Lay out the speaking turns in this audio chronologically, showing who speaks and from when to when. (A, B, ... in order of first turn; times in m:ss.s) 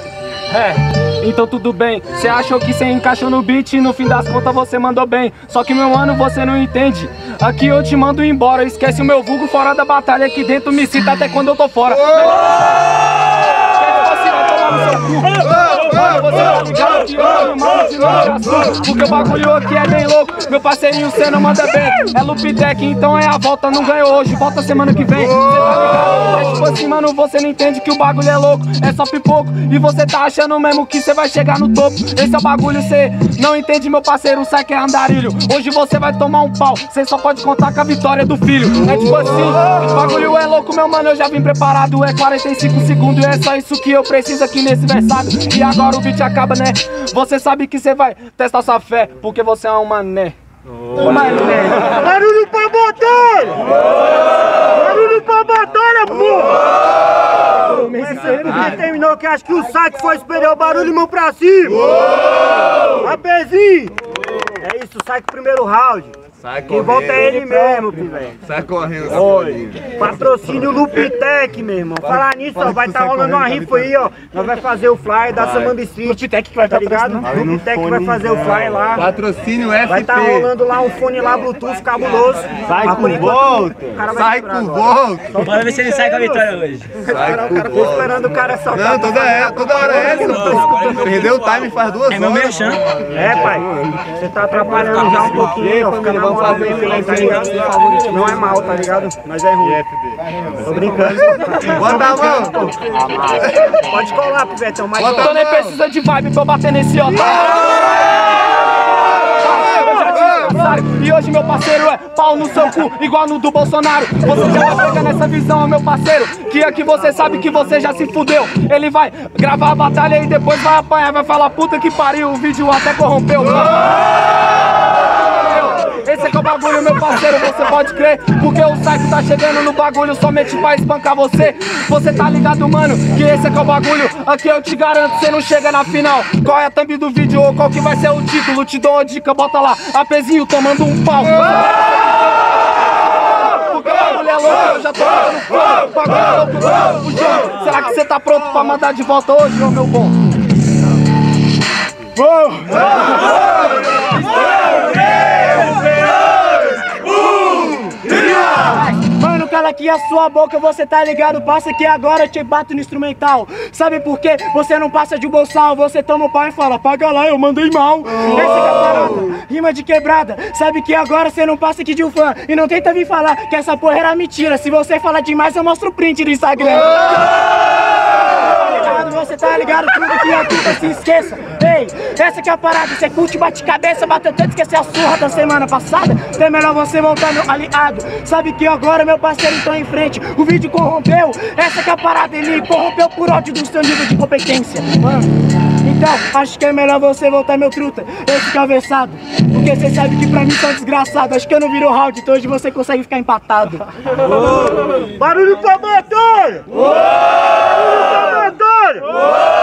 0:00.5-0:12.6 A
0:13.8-0:50.4 A
0:51.0-0:51.7 A
0:51.0-0:51.9 B
0:51.8-0:53.8 C
0:54.6-0:56.7 C
0:57.7-0:58.7 B
0:57.7-1:01.9 C
1:02.8-1:04.0 C
1:04.6-1:06.1 C
1:06.4-1:07.4 D
1:06.6-1:08.4 C
1:08.4-1:09.8 D
1:09.1-1:19.1 C
1:12.6-1:13.8 D
1:16.0-1:17.3 B
1:17.3-1:18.2 D
1:18.9-1:20.5 D
1:19.9-1:26.4 C
1:22.7-1:25.4 D
1:25.4-1:26.9 E
1:27.0-1:28.1 D
1:27.0-1:30.8 C
1:28.7-1:32.5 D
1:32.1-1:32.8 E
1:33.1-1:39.8 C
1:35.7-1:37.5 D
1:40.6-1:42.7 C
1:41.6-1:43.7 D
1:43.8-1:45.3 C
1:45.0-1:45.7 D
1:45.1-2:04.2 A
2:05.2-2:21.8 A
2:23.2-2:30.1 A
2:32.2-2:33.0 B
2:38.5-2:57.2 B
2:58.4-3:15.3 B
3:15.8-3:23.8 B
3:25.0-3:26.8 C
3:27.6-3:29.2 C